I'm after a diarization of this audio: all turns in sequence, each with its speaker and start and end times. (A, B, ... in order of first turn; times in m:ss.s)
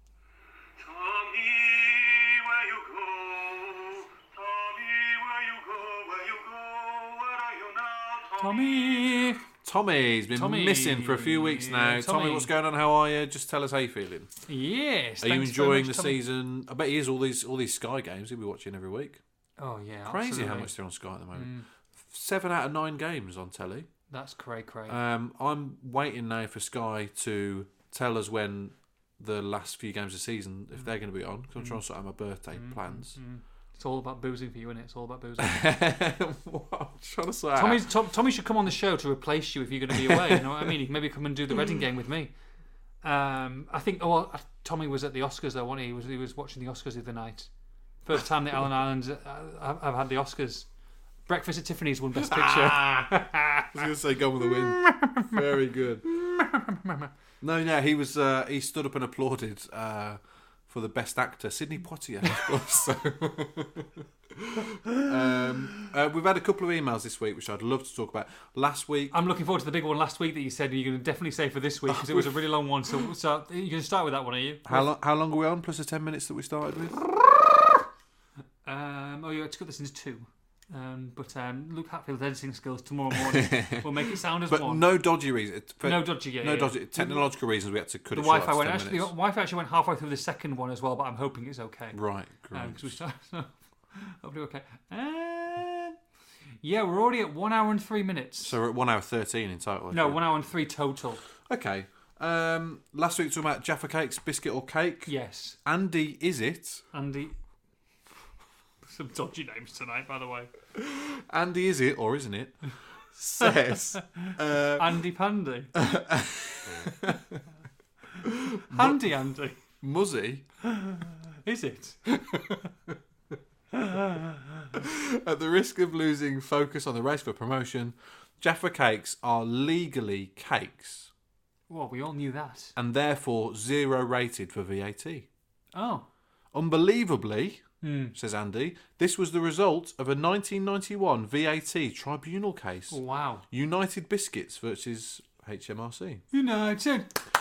0:00.8-0:09.3 A
0:08.4-0:09.4 B
0:09.6-0:14.3 C
0:10.3-0:12.5 B
0:14.5-0:16.2 B
0:15.2-0:19.2 C
0:19.6-0:20.7 B
0:20.0-0:23.9 C
0:21.3-0:21.7 B
0:24.1-0:25.0 B
0:24.9-0:33.2 C
0:32.5-0:35.6 B
0:35.4-0:37.9 C
0:37.6-0:42.3 B
0:39.9-0:40.7 C
0:43.0-0:47.5 B
0:48.0-0:50.7 B
0:51.3-0:55.4 B
0:52.2-0:56.0 C
0:56.1-0:57.1 B
0:57.4-1:09.2 C
1:09.1-1:14.9 B
1:11.9-1:12.4 C
1:14.6-1:17.0 C
1:18.6-1:24.9 B
1:23.1-1:29.1 C
1:25.8-1:27.2 B
1:28.1-1:32.0 B
1:31.9-1:33.0 C
1:32.5-1:36.0 B
1:36.6-1:38.6 B
1:38.4-1:40.2 C
1:39.9-1:41.2 B
1:41.4-1:45.1 C
1:45.1-1:45.6 B
1:45.6-1:46.9 C
1:46.9-1:47.4 B
1:48.8-1:50.5 B
1:50.7-1:55.0 C
1:53.4-1:55.8 B
1:55.8-1:57.4 C
1:58.2-1:59.2 C
1:58.7-1:59.6 B
1:59.8-2:00.4 C
2:00.7-2:02.0 B
2:02.1-2:03.0 C
2:03.7-2:04.7 B
2:04.7-2:11.1 C
2:11.7-2:12.7 B
2:12.8-2:15.3 C
2:15.7-2:16.1 B
2:16.5-2:17.6 C
2:17.8-2:18.2 B
2:18.2-2:23.0 C
2:22.9-2:23.4 B
2:23.5-2:26.2 C
2:26.3-2:27.2 B